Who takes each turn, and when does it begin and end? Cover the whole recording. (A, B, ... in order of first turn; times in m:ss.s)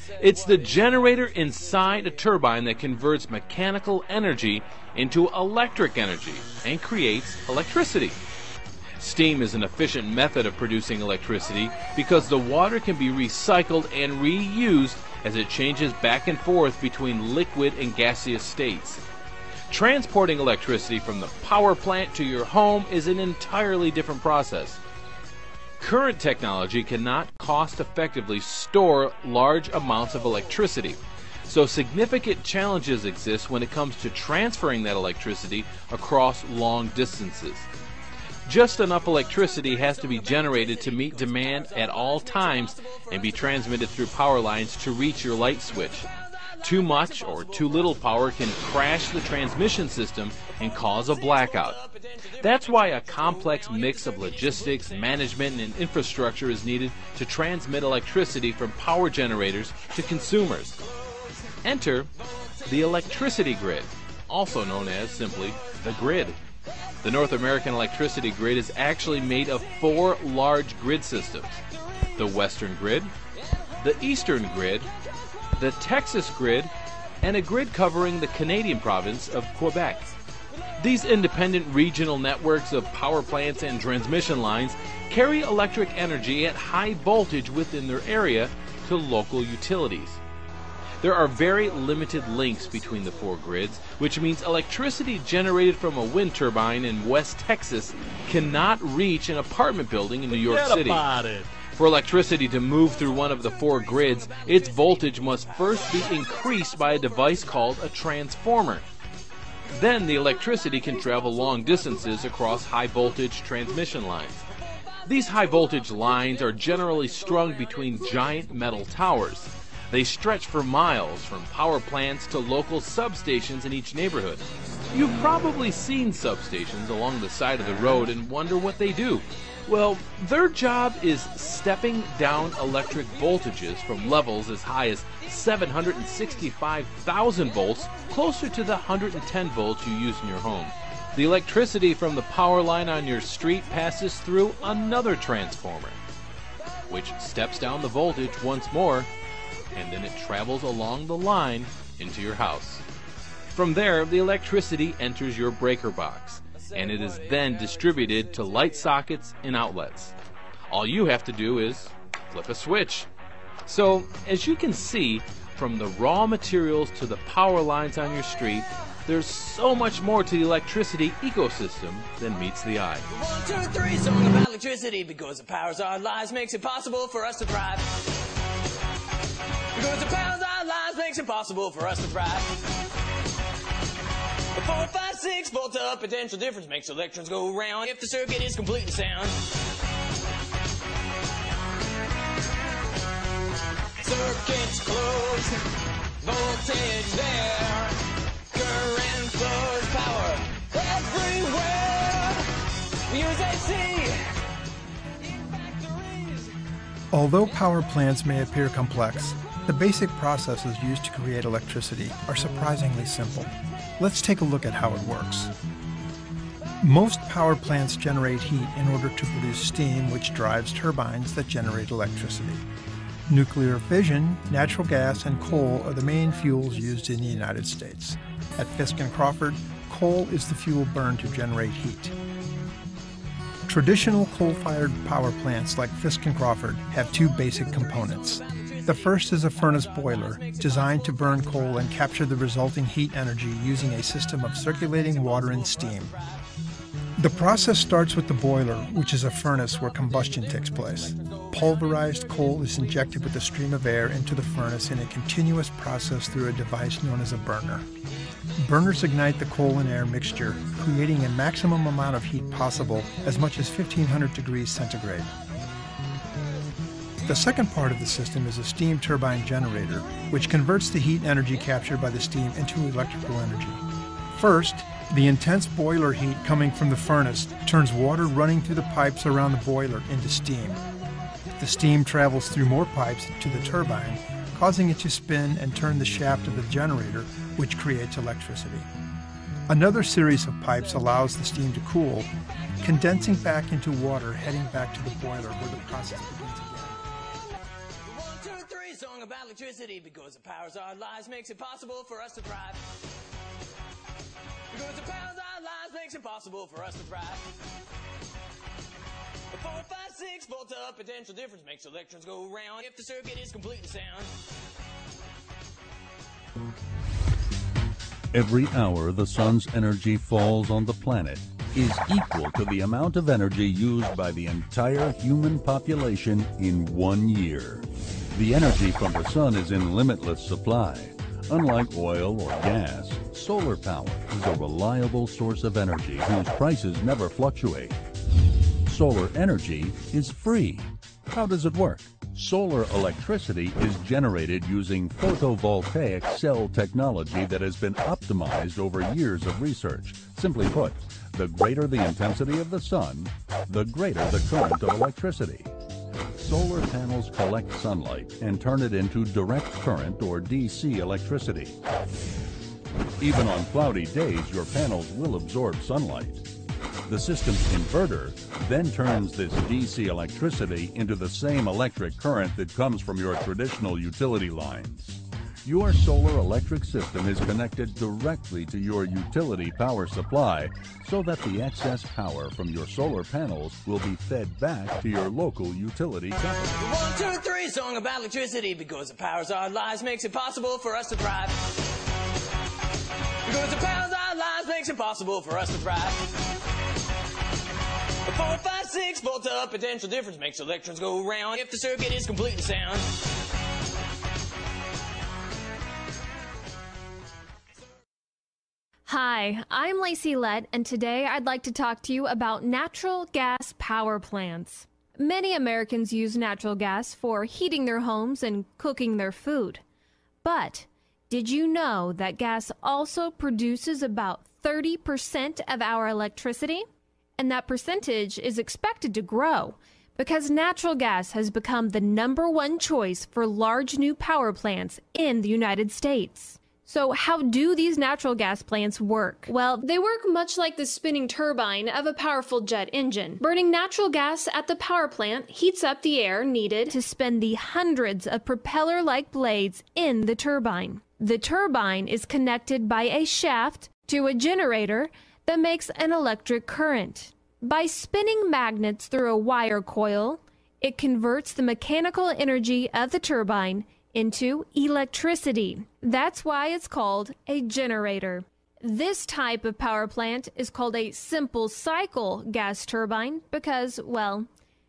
0:00.2-0:08.2 A
0:09.0-0:19.0 A
0:19.7-0:24.8 A
0:25.8-0:37.7 A
0:38.5-0:46.1 A
0:39.7-0:43.7 B
0:46.6-0:51.8 A
0:46.8-0:47.9 B
0:50.8-0:55.4 B
0:52.4-1:00.8 A
1:01.6-1:02.1 A
1:02.6-1:06.4 A
1:07.0-1:11.6 A
1:12.2-1:13.1 A
1:13.8-1:14.9 A
1:15.5-1:16.7 A
1:17.2-1:20.1 A
1:20.8-1:30.2 A
1:31.0-1:48.9 A
1:43.2-1:47.5 B
1:49.7-1:54.5 A
1:51.9-1:52.3 B
1:55.0-2:26.0 A
1:55.2-1:58.4 B
2:26.9-2:29.1 A
2:29.7-2:32.8 A
2:33.5-2:40.2 A
2:37.0-2:38.4 B
2:40.7-2:43.1 A
2:43.7-2:53.1 A
2:53.1-2:57.9 B
2:59.8-3:02.5 B
3:04.5-3:09.4 B
3:14.0-3:15.6 B
3:16.2-3:18.0 B
3:18.5-3:22.5 B
3:23.1-3:24.3 B
3:25.2-3:26.5 B
3:27.1-3:35.5 C
3:36.8-3:42.6 C
3:43.3-3:52.2 C
3:53.7-4:06.2 C
3:57.9-4:01.5 B
4:04.8-4:06.4 B
4:07.2-4:17.9 C
4:18.6-4:25.3 C
4:27.2-4:40.8 C
4:41.6-4:48.9 C
4:49.7-4:57.1 C
4:58.0-5:02.8 B
5:04.7-5:07.5 B
5:09.5-5:14.3 B
5:18.3-5:38.0 D
5:38.9-5:55.7 D
5:56.3-6:01.8 D
6:03.2-6:06.4 D
6:07.0-6:26.8 D
6:26.8-6:31.6 B
6:33.5-6:36.2 B
6:38.2-6:43.1 B
6:49.1-6:59.8 E
7:00.4-7:06.9 E
7:07.4-7:54.5 E